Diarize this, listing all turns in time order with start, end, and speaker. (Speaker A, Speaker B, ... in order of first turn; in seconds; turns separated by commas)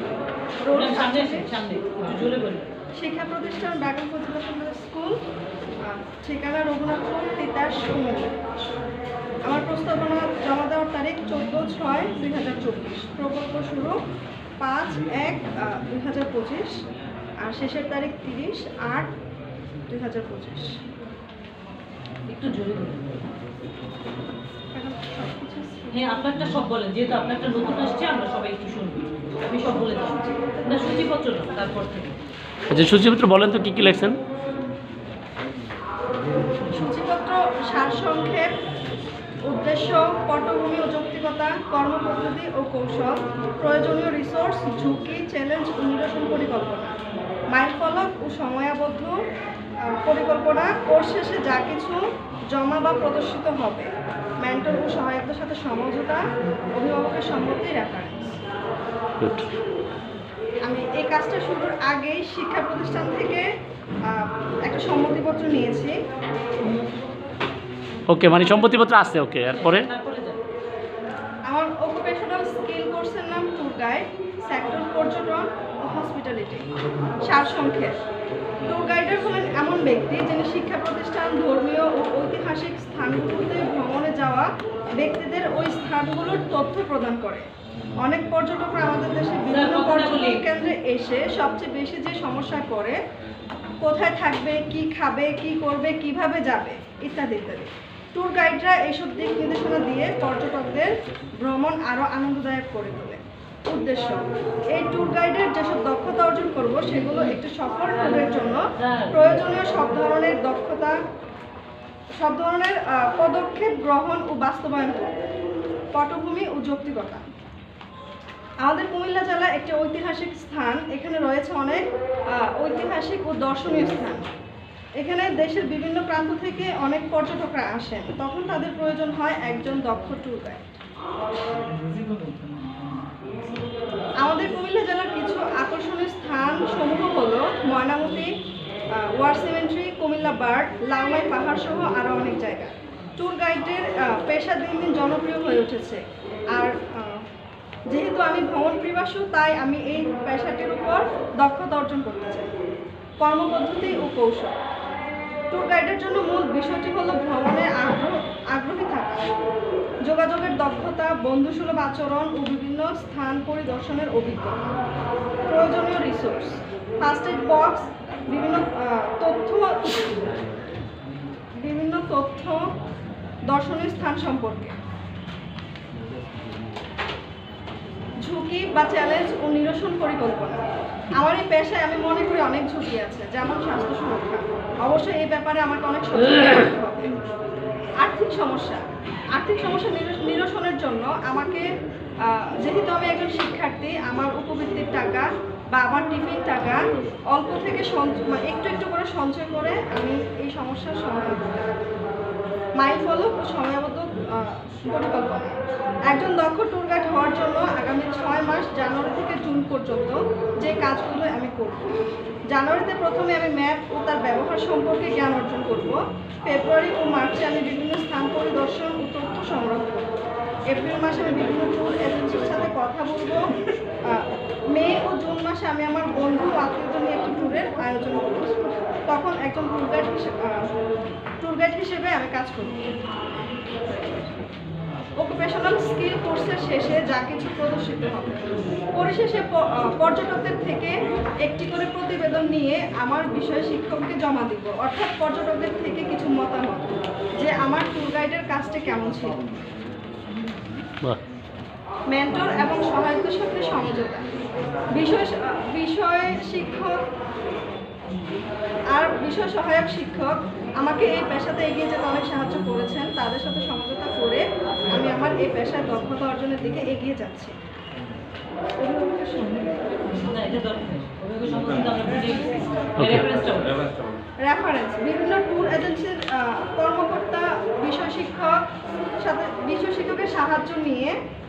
Speaker A: 0.6-1.6, Speaker B: 0.7-2.7, Speaker A: 2.9-5.2, Speaker A: 5.8-8.4, Speaker A: 9.4-14.0, Speaker A: 14.6-16.8, Speaker A: 17.4-19.1, Speaker A: 19.9-20.8, Speaker B: 22.3-23.3, Speaker A: 24.7-26.1, Speaker B: 25.9-32.1, Speaker A: 30.1-30.4, Speaker C: 32.7-34.2, Speaker A: 36.7-38.5, Speaker A: 39.4-47.0, Speaker A: 47.5-49.1, Speaker A: 49.8-58.4, Speaker C: 59.2-59.5, Speaker A: 60.6-63.5, Speaker A: 64.0-66.0, Speaker C: 68.1-69.9, Speaker B: 69.5-70.4, Speaker A: 71.5-76.7, Speaker A: 77.2-78.0, Speaker A: 78.6-87.5, Speaker A: 88.0-93.0, Speaker B: 89.5-90.4, Speaker A: 93.8-111.0, Speaker B: 108.8-109.2, Speaker A: 112.2-115.2, Speaker A: 115.9-117.3, Speaker A: 118.6-124.2, Speaker A: 125.0-130.8, Speaker A: 134.2-138.3, Speaker A: 138.9-146.0, Speaker A: 146.5-147.2, Speaker A: 147.9-152.5, Speaker A: 153.2-154.6, Speaker A: 155.5-159.3, Speaker A: 160.0-164.8, Speaker A: 165.5-170.2, Speaker A: 171.6-172.6, Speaker A: 173.5-174.7, Speaker A: 178.2-180.6, Speaker A: 181.2-187.1, Speaker A: 188.0-191.7, Speaker A: 192.2-201.9, Speaker A: 202.8-220.2, Speaker A: 220.7-223.5, Speaker A: 224.1-230.7, Speaker A: 231.4-233.0, Speaker A: 233.9-234.3, Speaker A: 235.2-249.4, Speaker A: 252.1-254.2, Speaker A: 254.9-257.0, Speaker A: 258.9-267.5, Speaker A: 268.8-269.6, Speaker B: 269.9-273.8, Speaker C: 273.0-273.3, Speaker A: 274.4-278.6, Speaker A: 279.2-281.2